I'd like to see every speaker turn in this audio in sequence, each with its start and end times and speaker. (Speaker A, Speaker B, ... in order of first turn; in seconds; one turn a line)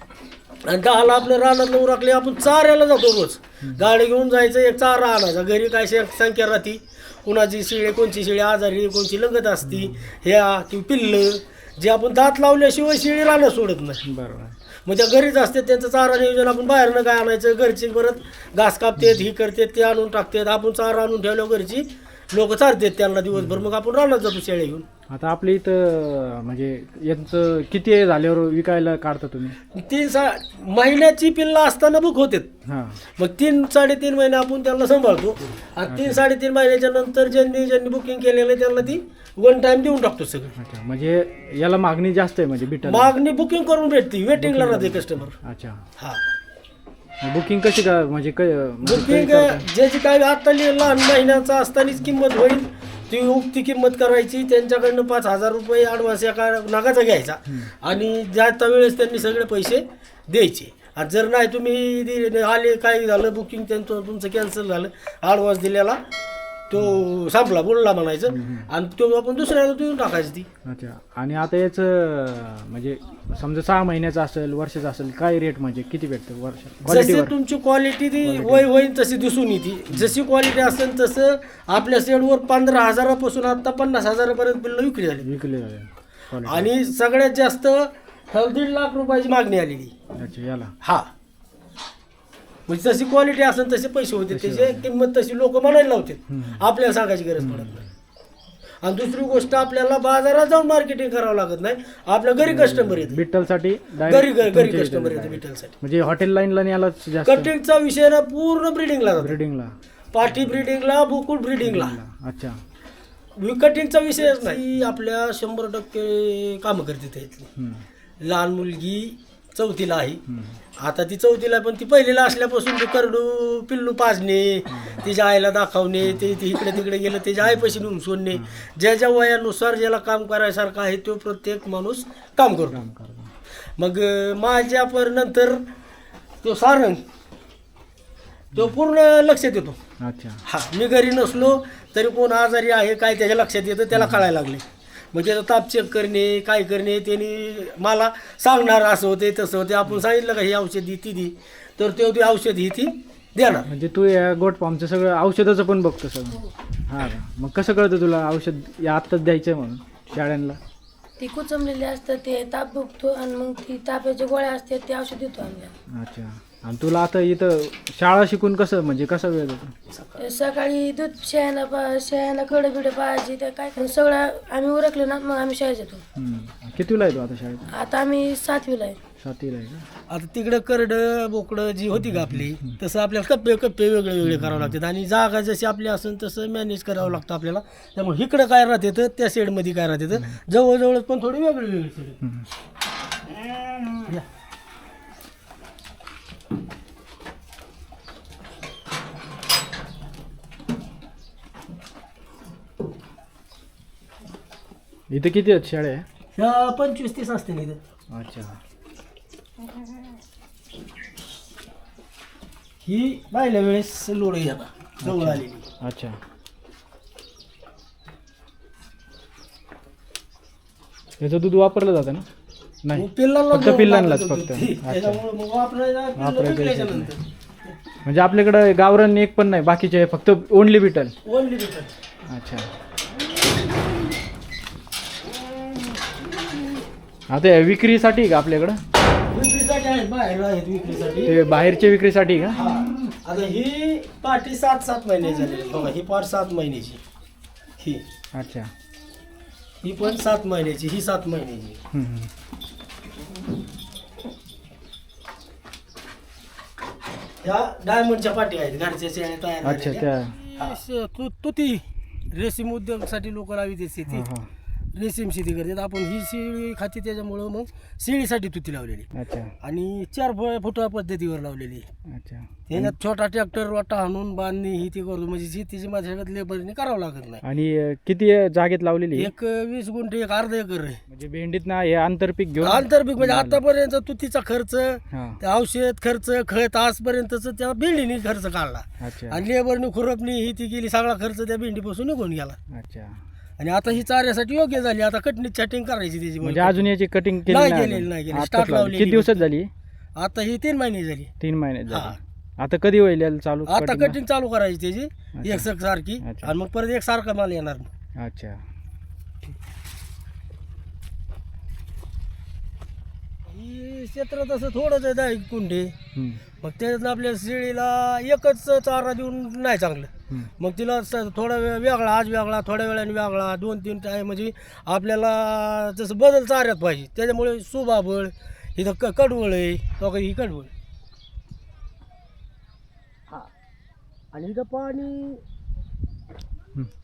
Speaker A: 0.6-14.0
Speaker B: 9.6-10.0
Speaker B: 14.0-14.6
Speaker A: 14.8-24.9
Speaker B: 19.0-19.2
Speaker B: 23.3-23.6
Speaker B: 25.1-29.6
Speaker A: 29.7-32.5
Speaker B: 32.6-33.0
Speaker A: 33.2-40.5
Speaker B: 35.9-36.2
Speaker B: 40.6-43.1
Speaker A: 42.8-45.3
Speaker B: 44.4-45.8
Speaker B: 47.2-49.7
Speaker A: 48.8-66.0
Speaker A: 66.7-70.5
Speaker B: 68.3-68.7
Speaker B: 70.6-77.3
Speaker A: 76.8-85.3
Speaker B: 78.2-78.7
Speaker B: 85.2-86.7
Speaker A: 86.4-89.9
Speaker B: 90.2-90.7
Speaker A: 90.8-91.1
Speaker A: 92.7-97.8
Speaker B: 94.3-94.9
Speaker B: 96.3-96.6
Speaker B: 97.4-97.8
Speaker A: 98.8-103.2
Speaker B: 102.4-107.5
Speaker A: 104.0-105.8
Speaker A: 107.2-109.4
Speaker B: 109.2-110.6
Speaker A: 110.1-112.0
Speaker B: 111.6-112.6
Speaker A: 113.4-117.5
Speaker B: 117.6-117.8
Speaker A: 118.2-120.2
Speaker B: 120.3-120.6
Speaker A: 120.8-132.8
Speaker B: 124.7-125.1
Speaker B: 126.0-126.4
Speaker B: 127.4-128.6
Speaker B: 132.7-133.3
Speaker A: 133.8-135.6
Speaker A: 136.4-137.0
Speaker A: 138.5-139.8
Speaker B: 140.0-140.4
Speaker A: 140.4-153.7
Speaker B: 143.9-144.2
Speaker B: 153.7-160.6
Speaker C: 161.2-165.7
Speaker B: 165.9-169.7
Speaker C: 170.2-176.0
Speaker B: 176.1-177.6
Speaker C: 177.7-179.0
Speaker B: 179.2-179.8
Speaker A: 180.1-192.2
Speaker B: 182.0-182.7
Speaker B: 184.2-184.8
Speaker B: 192.2-192.5
Speaker B: 205.1-206.0
Speaker A: 206.3-207.8
Speaker B: 208.1-208.6
Speaker A: 212.8-215.6
Speaker B: 215.0-216.2
Speaker B: 221.2-222.2
Speaker B: 222.8-225.2
Speaker A: 222.9-227.2
Speaker B: 226.2-227.1
Speaker B: 228.0-231.1
Speaker A: 231.2-231.9
Speaker B: 232.3-232.7
Speaker B: 237.3-238.8
Speaker A: 239.3-241.4
Speaker B: 241.2-242.7
Speaker A: 242.5-247.0
Speaker B: 248.3-248.7
Speaker A: 249.8-251.8
Speaker B: 251.9-252.3
Speaker A: 257.4-264.3
Speaker B: 259.6-260.4
Speaker B: 264.1-264.5
Speaker A: 264.9-271.9
Speaker B: 269.1-269.5
Speaker B: 272.1-272.9
Speaker A: 272.7-277.4
Speaker B: 277.4-279.3
Speaker A: 279.1-281.0
Speaker B: 281.1-283.6
Speaker A: 282.6-292.6
Speaker B: 285.1-285.4
Speaker B: 289.0-289.4
Speaker B: 292.7-293.2
Speaker A: 293.6-296.9
Speaker B: 296.4-299.7
Speaker A: 297.4-299.4
Speaker A: 300.2-301.3
Speaker B: 301.4-304.2
Speaker A: 301.9-302.2
Speaker A: 303.7-307.9
Speaker B: 305.4-305.7
Speaker B: 306.2-306.5
Speaker B: 308.2-308.6
Speaker A: 313.5-315.9
Speaker B: 316.1-316.4
Speaker A: 316.6-330.7
Speaker A: 334.3-335.4